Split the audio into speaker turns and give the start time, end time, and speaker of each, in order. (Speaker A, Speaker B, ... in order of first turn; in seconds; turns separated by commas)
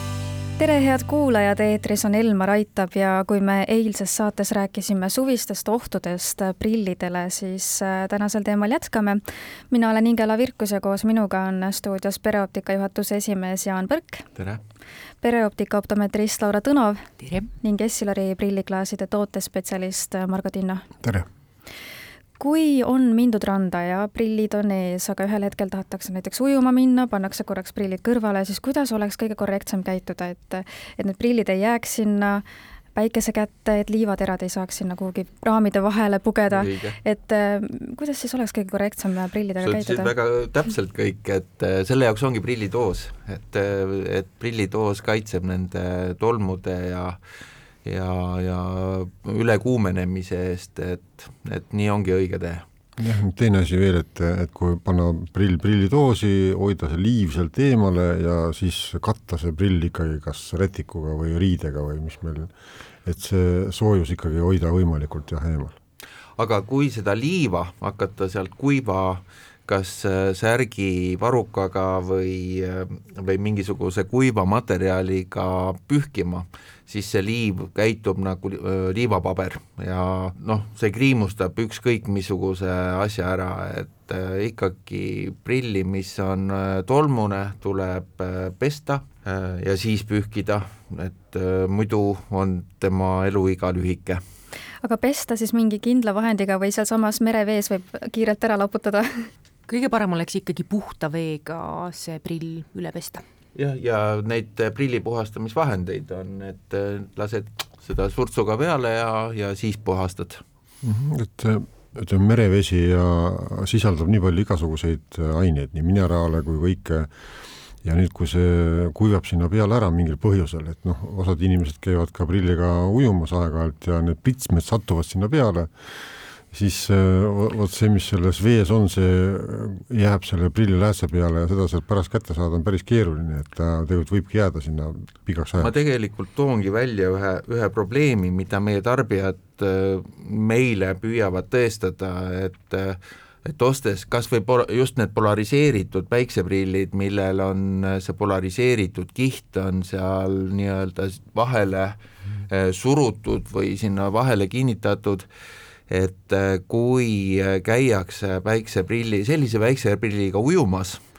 Speaker A: 0.6-14.3, Speaker A: 15.2-17.0, Speaker B: 17.2-17.5, Speaker A: 17.6-20.9, Speaker A: 22.4-40.1, Speaker C: 36.5-37.0, Speaker C: 39.6-47.2, Speaker C: 47.9-52.6, Speaker D: 53.0-62.5, Speaker D: 63.0-65.8, Speaker C: 66.4-94.2, Speaker A: 94.8-99.3, Speaker B: 99.7-103.2, Speaker C: 103.5-110.4, Speaker D: 110.8-117.1, Speaker D: 117.8-125.7, Speaker D: 126.5-135.7, Speaker C: 135.6-152.0, Speaker C: 152.5-155.3, Speaker C: 155.9-161.0